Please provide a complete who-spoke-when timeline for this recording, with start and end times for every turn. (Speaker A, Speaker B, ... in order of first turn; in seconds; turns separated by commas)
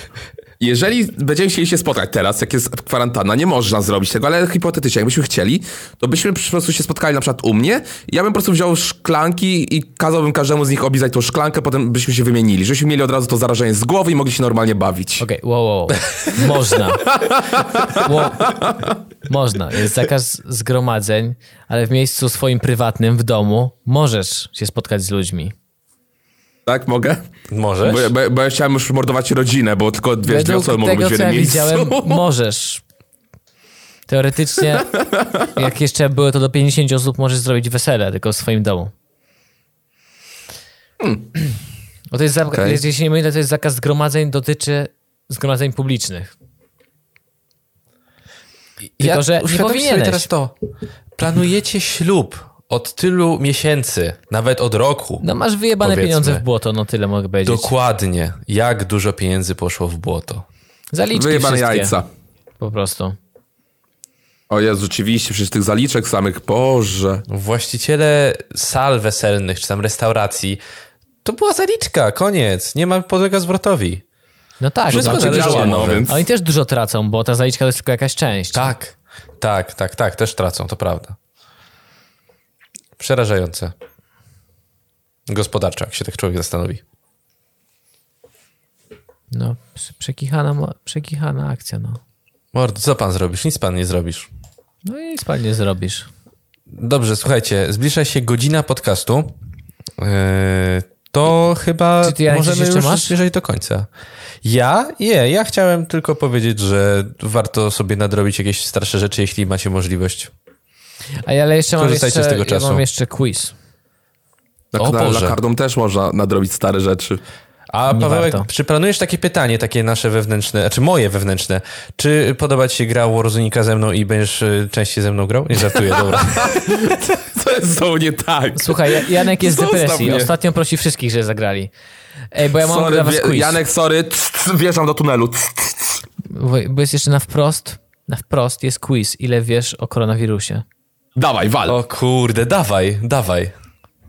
Speaker A: 0.6-15.2, Speaker B: 15.2-17.1, Speaker A: 17.1-18.9, Speaker B: 17.9-18.6, Speaker B: 19.3-25.5, Speaker A: 26.7-27.3, Speaker C: 27.5-28.1, Speaker A: 27.8-32.2, Speaker B: 30.2-32.8, Speaker B: 34.1-35.0, Speaker A: 35.0-35.5, Speaker B: 35.5-38.9, Speaker A: 41.0-41.3, Speaker B: 42.1-46.3, Speaker A: 42.5-42.8, Speaker B: 49.0-50.3, Speaker C: 49.0-50.5, Speaker C: 51.2-55.2, Speaker B: 55.2-57.7, Speaker C: 55.8-56.4, Speaker C: 57.5-60.5, Speaker B: 60.9-62.0, Speaker A: 61.1-62.1, Speaker B: 62.6-63.2, Speaker A: 64.5-67.2, Speaker C: 67.3-70.6, Speaker C: 71.2-74.0, Speaker B: 74.6-78.7, Speaker C: 74.9-76.1, Speaker A: 74.9-76.2, Speaker C: 78.5-81.2, Speaker C: 83.0-83.7, Speaker C: 85.3-86.8, Speaker B: 89.3-92.0, Speaker C: 92.5-94.3, Speaker B: 94.8-96.1, Speaker C: 96.7-99.3, Speaker C: 100.0-103.9, Speaker B: 102.0-103.1, Speaker C: 104.4-110.3, Speaker B: 111.2-113.5, Speaker C: 111.8-112.8, Speaker A: 114.7-117.2, Speaker C: 114.8-115.4, Speaker C: 117.7-126.7, Speaker B: 117.9-118.5, Speaker A: 126.1-130.3, Speaker B: 128.6-131.7, Speaker B: 132.3-133.6, Speaker A: 132.5-136.0, Speaker B: 136.3-140.6, Speaker A: 141.2-141.8, Speaker C: 141.7-143.5